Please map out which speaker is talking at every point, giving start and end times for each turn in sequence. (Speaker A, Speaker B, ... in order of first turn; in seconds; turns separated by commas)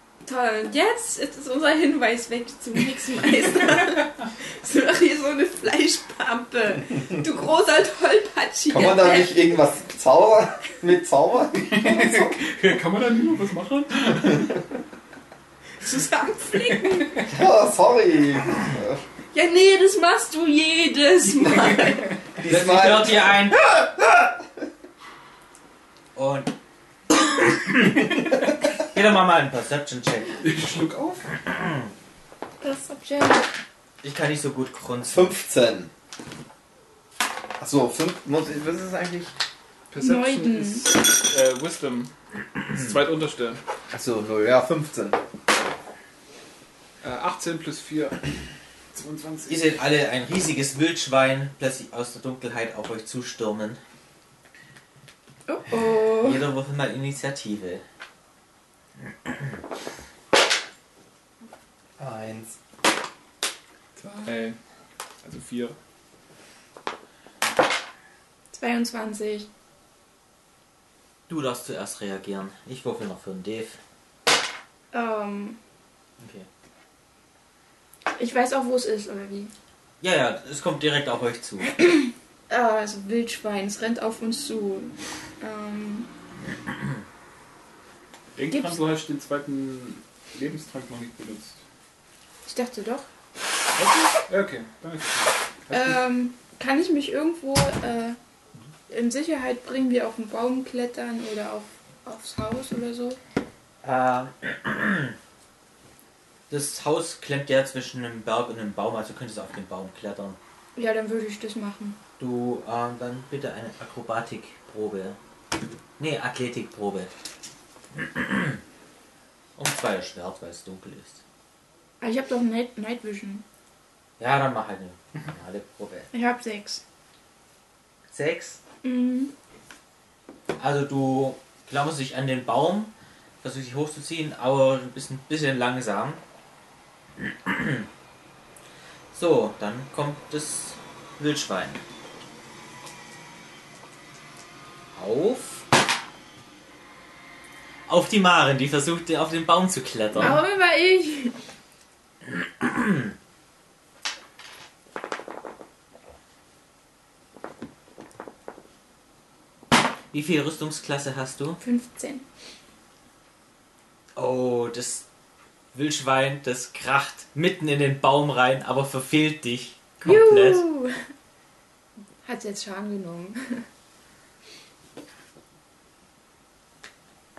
Speaker A: 0.2-9.5, Speaker B: 8.7-12.4, Speaker C: 11.7-14.5, Speaker A: 15.8-17.2, Speaker C: 16.6-17.2, Speaker B: 17.3-19.0, Speaker A: 19.3-22.2, Speaker B: 22.4-24.3, Speaker D: 22.4-23.6, Speaker D: 26.1-26.5, Speaker D: 27.4-28.1, Speaker D: 28.8-30.4, Speaker C: 30.4-31.2, Speaker D: 31.4-31.9, Speaker A: 32.6-33.5, Speaker D: 34.0-35.4, Speaker B: 35.1-35.9, Speaker B: 37.6-39.3, Speaker C: 39.9-42.1, Speaker A: 40.0-40.9, Speaker C: 42.7-43.6, Speaker B: 43.9-45.2, Speaker C: 47.0-48.3, Speaker C: 48.9-49.6, Speaker D: 49.5-53.8, Speaker A: 55.5-56.4, Speaker D: 56.2-57.8, Speaker B: 62.0-62.5, Speaker C: 64.0-64.6, Speaker C: 65.2-65.8, Speaker A: 68.5-69.5, Speaker D: 71.3-73.8, Speaker A: 74.9-75.6, Speaker D: 76.2-76.5, Speaker A: 78.1-79.5, Speaker D: 80.0-81.8, Speaker A: 81.8-86.1, Speaker C: 88.3-91.6, Speaker A: 88.5-88.8, Speaker A: 92.5-93.1, Speaker C: 93.8-96.0, Speaker A: 95.7-98.2, Speaker A: 98.9-103.2, Speaker D: 103.8-105.2, Speaker D: 106.5-110.4, Speaker A: 110.8-112.0, Speaker D: 112.2-115.2, Speaker D: 116.0-117.1, Speaker D: 118.0-118.6, Speaker D: 119.6-121.2, Speaker A: 122.0-123.4, Speaker D: 124.2-126.1, Speaker A: 126.1-126.8, Speaker D: 128.1-128.6, Speaker A: 128.8-129.3, Speaker D: 130.6-136.2, Speaker D: 137.2-137.9, Speaker D: 139.1-141.8, Speaker D: 144.9-145.6, Speaker D: 147.9-150.4, Speaker A: 150.2-151.3, Speaker D: 152.4-153.1, Speaker D: 160.1-161.6, Speaker A: 161.6-162.2, Speaker D: 164.2-165.0, Speaker D: 165.7-170.6, Speaker A: 170.0-170.9, Speaker A: 172.2-173.6